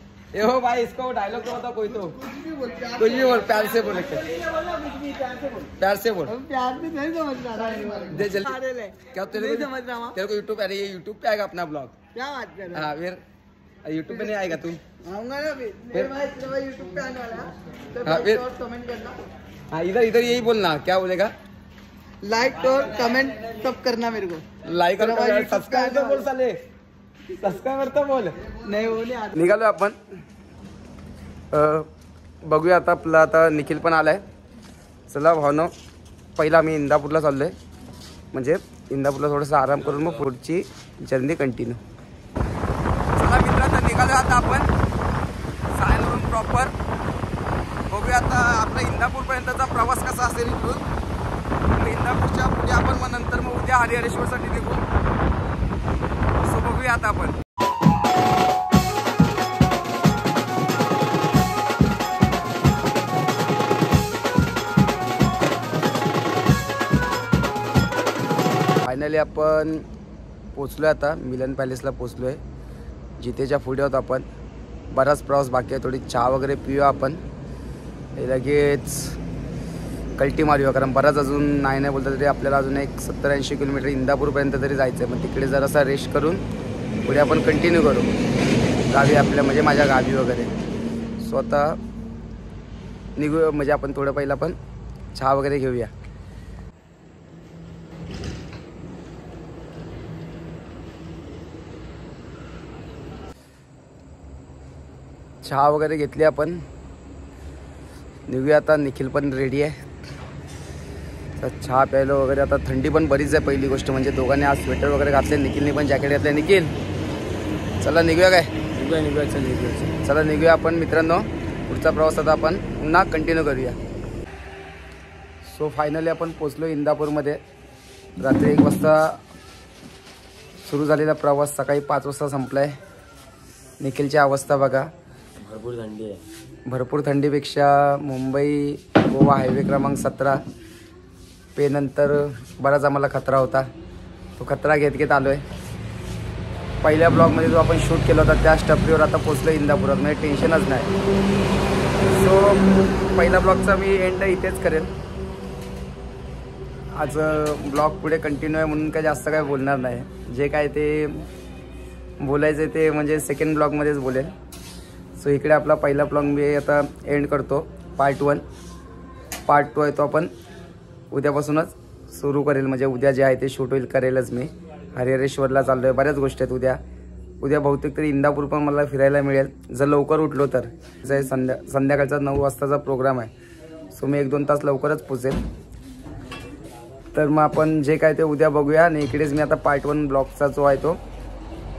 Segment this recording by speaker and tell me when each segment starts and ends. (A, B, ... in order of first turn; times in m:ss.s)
0:00.3-0:02.2 A
0:02.3-0:03.1 B
0:03.0-0:04.3 A
0:04.1-0:05.7 B
0:05.8-0:06.4 A
0:06.3-0:10.2 B
0:08.1-0:12.0 A
0:12.1-0:12.9 B
0:12.7-0:13.2 A
0:13.8-0:14.8 A
0:15.0-0:19.2 B
0:18.0-0:18.4 A
0:19.7-0:21.3 A
0:22.2-0:24.4 B
0:24.6-0:26.6 A
0:25.0-0:26.3 B
0:27.4-0:28.4 A
0:28.5-0:29.5 B
0:29.4-0:30.0 A
0:31.5-0:31.9 A
0:32.4-0:34.2 A
0:35.1-0:35.7 A
0:36.4-0:37.6 A
0:38.3-0:41.8 A
0:43.2-0:44.7 A
0:45.8-0:46.7 A
0:47.9-0:50.8 A
0:51.7-0:54.8 A
0:56.4-0:57.4 A
1:08.8-1:09.9 A
1:10.6-1:12.4 A
1:13.2-1:14.3 A
1:14.9-1:17.2 A
1:18.2-1:19.2 A
1:20.2-1:26.4 A
1:27.1-1:28.1 A
1:28.9-1:30.5 A
1:31.2-1:31.8 A
1:33.2-1:34.6 A
1:35.2-1:35.9 A
1:45.4-1:46.6 A
1:48.3-1:49.8 A
1:51.4-1:56.7 A
1:57.8-1:58.6 A
1:58.8-1:59.9 C
2:00.0-2:03.8 A
2:05.4-2:07.4 A
2:08.2-2:09.2 A
2:10.6-2:12.8 A
2:13.8-2:14.9 A
2:15.4-2:16.2 C
2:16.7-2:20.4 A
2:21.6-2:23.7 A
2:24.4-2:25.4 A
2:26.8-2:30.9 A
2:32.0-2:34.9 A
2:36.9-2:41.3 A
2:42.2-2:44.3 A
2:45.2-2:48.4 A
2:49.5-2:50.3 A
2:51.1-2:56.8 A
2:57.4-3:03.3 A
3:03.9-3:05.4 A
3:07.1-3:11.0 A